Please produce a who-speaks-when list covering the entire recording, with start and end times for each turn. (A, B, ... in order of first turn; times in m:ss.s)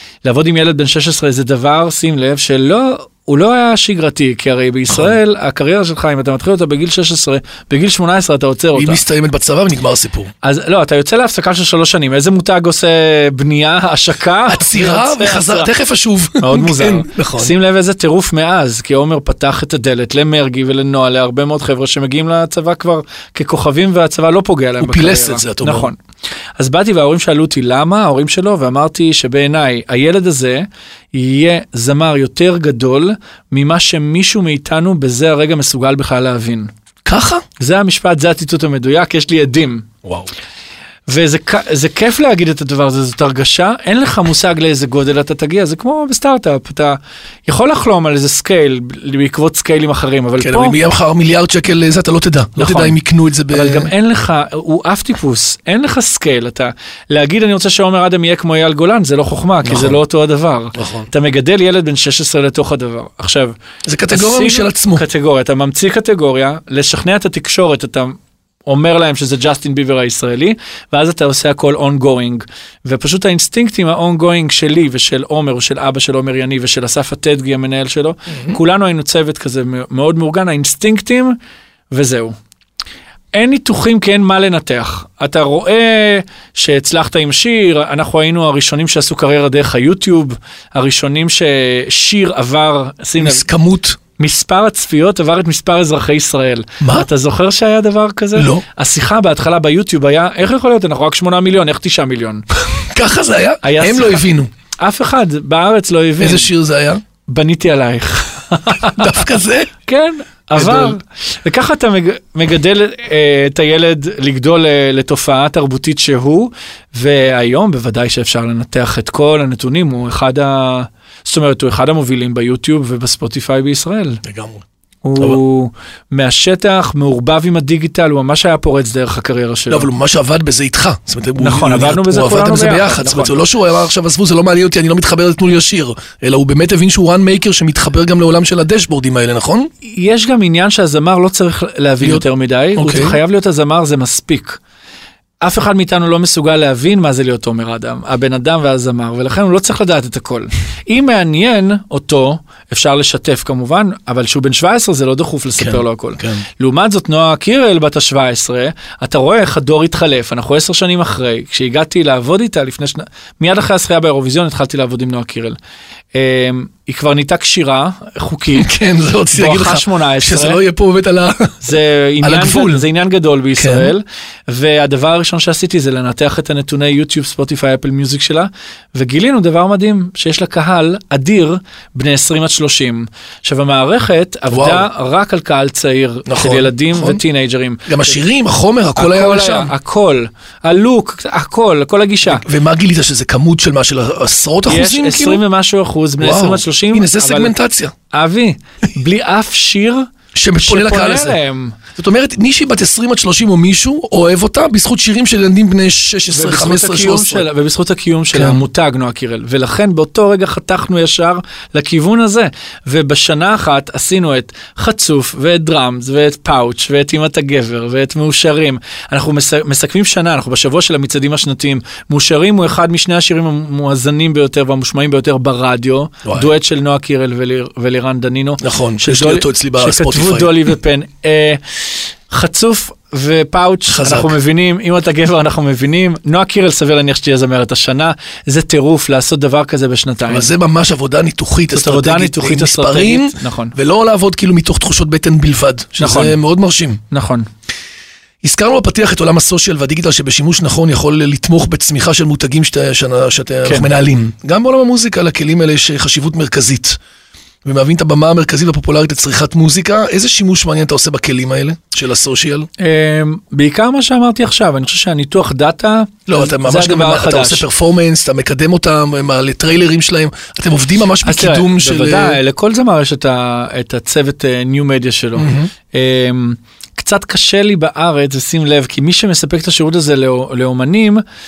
0:00.2-0:09.0 A
0:04.9-0:05.2 B
0:08.7-0:10.3 B
0:10.4-0:15.7 A
0:14.5-0:17.5 B
0:16.4-0:26.0 A
0:24.8-0:25.9 B
0:26.6-0:36.7 A
0:37.0-0:37.4 B
0:37.6-0:39.9 A
0:41.1-0:50.8 A
0:50.4-0:53.9 B
0:52.6-0:53.0 A
0:53.5-1:03.6 A
0:59.6-1:00.0 B
1:00.8-1:01.1 B
1:03.8-1:05.0 B
1:04.1-1:21.4 A
1:21.9-1:22.3 A
1:23.3-1:33.4 A
1:33.2-1:34.0 B
1:34.2-1:42.4 A
1:36.8-1:37.1 B
1:38.3-1:38.6 B
1:42.7-1:44.5 B
1:43.6-1:44.2 A
1:44.8-1:46.5 A
1:46.2-1:47.0 B
1:47.3-1:49.2 A
1:48.8-1:49.7 B
1:49.8-2:04.2 A
1:50.6-1:51.0 B
2:04.2-2:04.6 B
2:05.0-2:09.9 A
2:09.7-2:19.7 B
2:11.4-2:13.4 A
2:19.8-2:24.6 A
2:22.8-2:23.2 B
2:25.4-2:45.6 A
2:35.6-2:36.4 B
2:46.1-2:48.7 A
2:48.6-2:51.6 B
2:49.3-2:50.6 A
2:51.6-3:08.2 A
2:52.2-2:52.8 B
2:53.6-2:53.9 B
3:04.5-3:04.9 B
3:06.3-3:07.2 B
3:07.8-3:09.7 B
3:09.0-3:12.4 A
3:12.2-3:15.4 B
3:14.7-3:17.5 A
3:16.2-3:17.9 B
3:18.1-3:21.8 A
3:20.3-3:21.4 B
3:22.0-3:27.4 B
3:26.3-3:51.6 A
3:28.3-3:28.6 B
3:48.6-3:50.6 B
3:52.3-4:00.5 A
3:53.9-3:54.3 B
4:00.3-4:07.0 B
4:01.7-4:03.7 A
4:06.0-4:06.4 A
4:07.1-4:07.5 A
4:08.4-4:17.0 B
4:17.6-4:22.7 B
4:22.8-4:27.7 A
4:26.3-4:32.4 B
4:31.2-4:41.2 A
4:35.4-4:35.7 B